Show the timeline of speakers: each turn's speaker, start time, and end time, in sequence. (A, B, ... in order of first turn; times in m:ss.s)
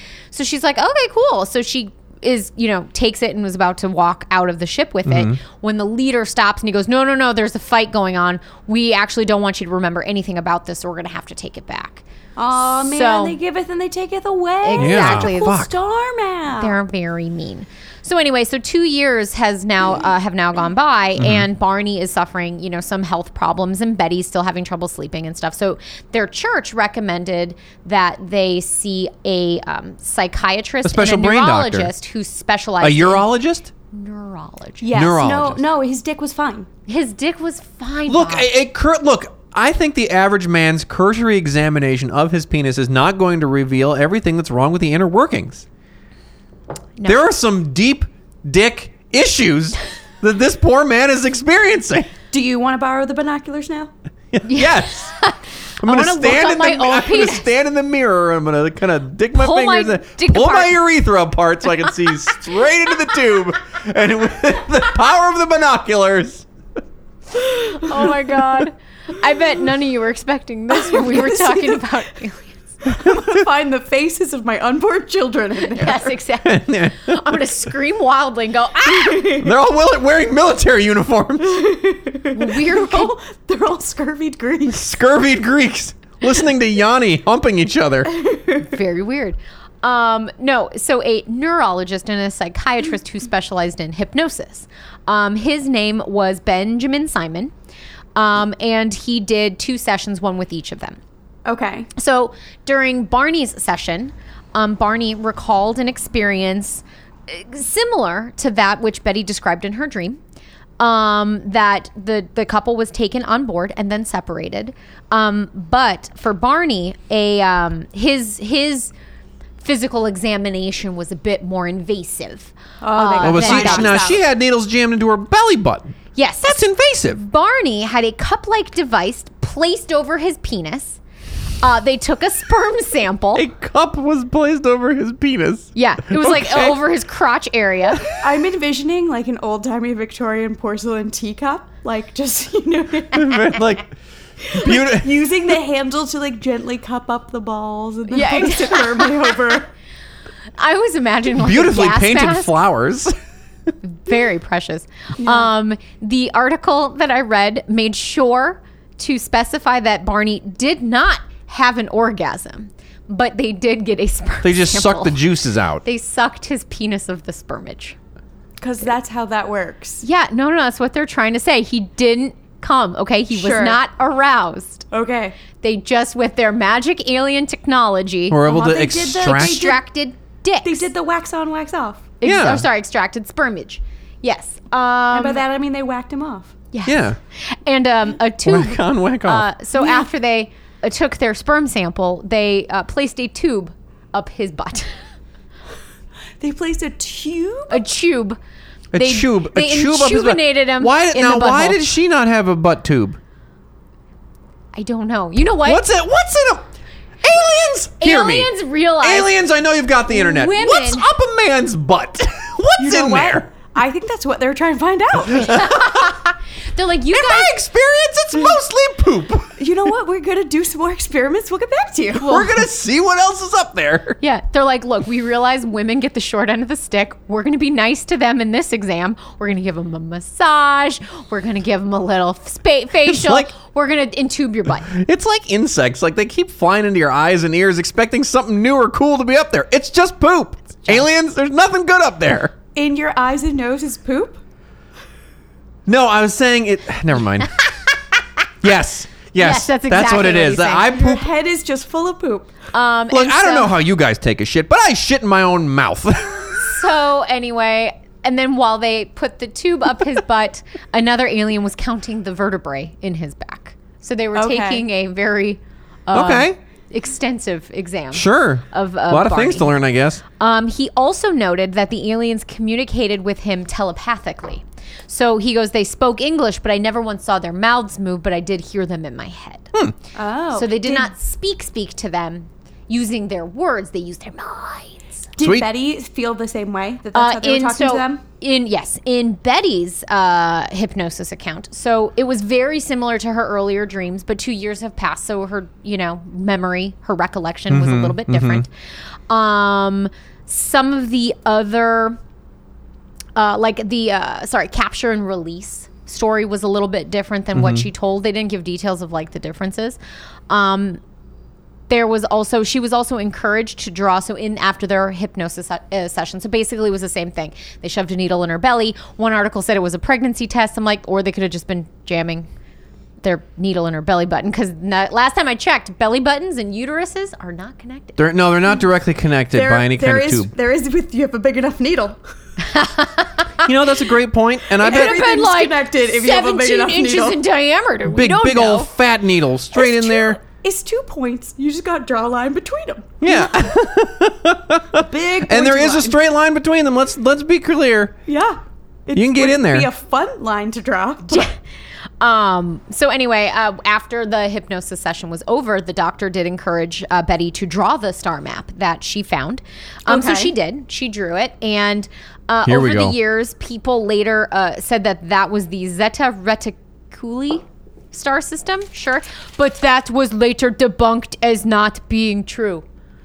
0:00.3-0:12.0 A
0:05.0-0:05.4 B
0:12.4-0:16.8 C
0:12.7-0:13.4 A
0:14.6-0:15.6 A
0:14.8-0:15.7 B
0:16.6-0:33.2 A
0:21.2-0:21.4 B
0:30.8-0:31.9 B
0:32.8-0:33.7 B
0:33.9-0:35.0 A
0:34.8-0:36.7 C
0:34.9-0:35.6 B
0:36.9-0:38.5 A
0:38.1-0:45.6 B
0:47.0-0:47.2 A
0:47.0-0:52.1 B
0:52.3-0:53.9 C
0:54.3-0:55.1 B
0:54.4-0:57.5 A
0:55.8-1:06.5 B
0:59.3-1:00.8 A
1:07.5-1:12.6 A
1:10.7-1:12.0 C
1:12.8-1:16.2 C
1:15.6-1:19.4 A
1:16.4-1:17.5 B
1:18.9-1:19.5 C
1:19.3-1:21.6 B
1:21.4-1:24.9 C
1:22.3-1:23.1 A
1:24.7-1:28.1 B
1:28.1-1:28.6 C
1:28.6-1:37.5 A
1:38.2-1:41.0 A
1:41.4-1:41.9 C
1:41.9-1:50.2 A
1:50.8-1:58.9 A
1:59.6-2:04.0 A
2:02.8-2:04.2 C
2:03.2-2:07.2 B
2:06.1-2:11.0 A
2:11.6-2:13.5 A
2:13.3-2:16.8 B
2:15.7-2:18.1 A
2:18.2-2:23.6 C
2:23.1-2:23.9 B
2:24.4-2:29.7 C
2:24.5-2:25.1 B
2:28.1-2:29.3 A
2:30.6-2:32.6 A
2:31.4-2:33.1 B
2:33.8-2:45.2 A
2:35.2-2:35.5 C
2:44.4-2:45.8 B
2:45.8-2:48.0 A
2:48.6-2:50.0 C
2:50.0-2:54.8 A
2:53.3-2:53.8 C
2:54.9-2:55.4 C
2:55.6-2:58.4 A
2:58.3-2:59.7 B
2:58.4-2:59.8 C
2:59.2-3:00.9 A
3:00.6-3:02.1 C
3:02.2-3:05.4 A
3:02.2-3:02.6 B
3:05.1-3:06.5 C
3:06.7-3:15.0 A
3:06.8-3:07.2 B
3:08.4-3:09.5 B
3:09.8-3:10.1 C
3:16.4-3:17.8 C
3:17.7-3:18.4 A
3:18.9-3:23.2 B
3:19.0-3:21.8 A
3:24.7-3:25.9 A
3:25.6-3:26.7 B
3:27.2-3:28.5 B
3:28.0-3:29.4 A
3:29.0-3:33.5 B
3:30.1-3:31.1 A
3:32.8-3:35.7 C
3:35.3-3:36.0 B
3:35.4-3:37.6 A
3:37.1-3:39.5 B
3:39.6-3:42.5 C
3:42.2-3:44.2 B
3:42.2-3:42.5 A
3:44.2-3:54.9 A
3:53.0-3:53.5 B
3:54.8-4:02.5 B
4:02.7-4:04.4 C
4:05.8-4:07.6 B
4:08.6-4:11.3 B
4:09.4-4:10.9 A
4:10.8-4:12.5 C
4:12.7-4:13.8 A
4:13.1-4:16.8 B
4:16.6-4:29.7 A
4:24.3-4:24.8 C
4:26.1-4:26.6 B
4:28.1-4:30.2 B
4:30.4-4:39.7 A
4:40.1-4:41.1 C
4:40.5-4:45.2 A
4:45.4-4:48.2 C
4:45.4-4:45.7 B
4:47.1-4:58.7 A
4:57.7-4:58.6 B
4:59.3-5:02.2 A
5:03.4-5:10.0 A
5:07.5-5:07.9 B
5:10.5-5:11.0 A
5:11.9-5:22.5 A
5:23.2-5:28.3 A
5:28.2-5:30.5 B
5:29.5-5:32.2 C
5:32.6-5:33.6 A
5:33.6-5:35.2 B
5:34.8-5:37.4 C
5:34.8-5:38.9 A
5:38.1-5:40.4 B
5:39.7-5:43.5 C
5:43.2-5:48.1 B
5:44.9-5:46.2 C
5:48.3-5:51.5 C
5:49.1-5:49.9 B
5:51.3-5:51.5 A
5:52.2-6:12.8 A
6:00.1-6:00.5 C
6:02.6-6:03.2 B